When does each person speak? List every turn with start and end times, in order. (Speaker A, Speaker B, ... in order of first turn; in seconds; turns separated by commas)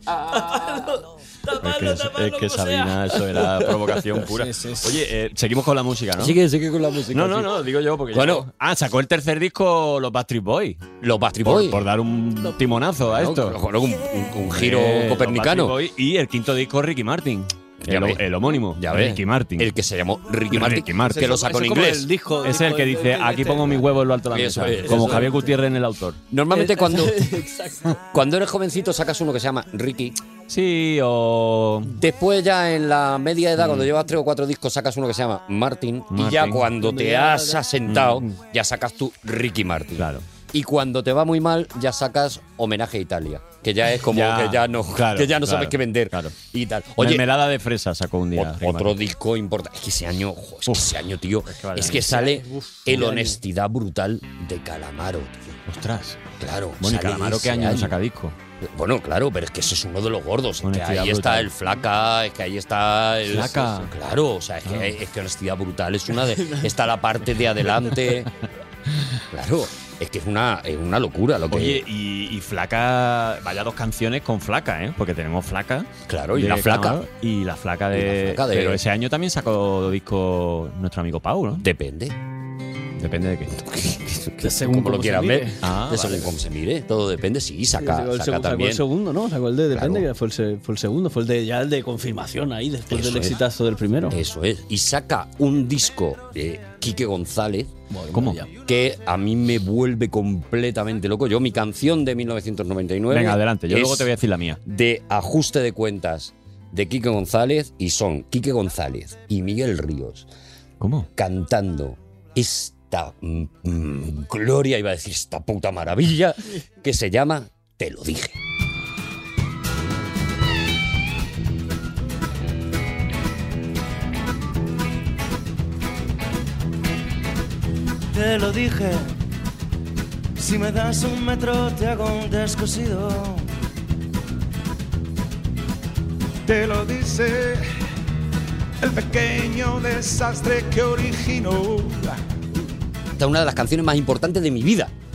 Speaker A: 0.2-3.2, Speaker B: 1.6-6.4, Speaker A: 4.2-5.0, Speaker C: 6.2-8.5, Speaker B: 7.1-10.8, Speaker C: 11.0-11.8, Speaker B: 11.4-13.6, Speaker C: 13.1-15.8, Speaker B: 14.5-19.7, Speaker C: 17.8-22.1, Speaker B: 20.5-21.4, Speaker A: 21.1-23.9, Speaker B: 22.4-26.2, Speaker C: 24.3-25.3, Speaker A: 24.9-25.5, Speaker C: 26.3-27.3, Speaker A: 26.5-28.0, Speaker C: 28.1-30.2, Speaker B: 30.5-31.9, Speaker C: 31.9-47.2, Speaker B: 33.6-33.9, Speaker B: 36.1-36.7, Speaker A: 36.8-37.6, Speaker B: 37.9-38.3, Speaker B: 40.0-40.2, Speaker B: 44.1-46.4, Speaker B: 47.0-49.0, Speaker C: 48.3-55.6, Speaker B: 51.5-52.2, Speaker A: 52.1-53.4, Speaker B: 55.7-56.2, Speaker C: 56.4-58.0, Speaker B: 56.8-58.4, Speaker C: 58.6-68.3, Speaker B: 60.6-61.5, Speaker B: 63.3-63.9, Speaker B: 64.6-64.9, Speaker C: 69.3-71.8, Speaker B: 71.5-81.6, Speaker C: 76.1-77.0, Speaker C: 77.9-78.8, Speaker C: 81.6-82.2, Speaker B: 83.0-83.5, Speaker C: 83.5-88.8, Speaker A: 84.4-85.6, Speaker B: 85.6-86.3, Speaker A: 87.8-94.2, Speaker C: 89.7-90.1, Speaker C: 92.9-93.4, Speaker C: 94.1-97.7, Speaker A: 97.9-98.5, Speaker B: 98.1-98.4, Speaker C: 98.7-104.1, Speaker B: 103.1-104.6, Speaker C: 104.7-110.3, Speaker B: 110.8-111.1, Speaker C: 111.2-118.4, Speaker D: 128.1-129.1, Speaker D: 130.4-133.5, Speaker E: 136.5-137.7, Speaker E: 138.8-142.2, Speaker C: 143.2-144.9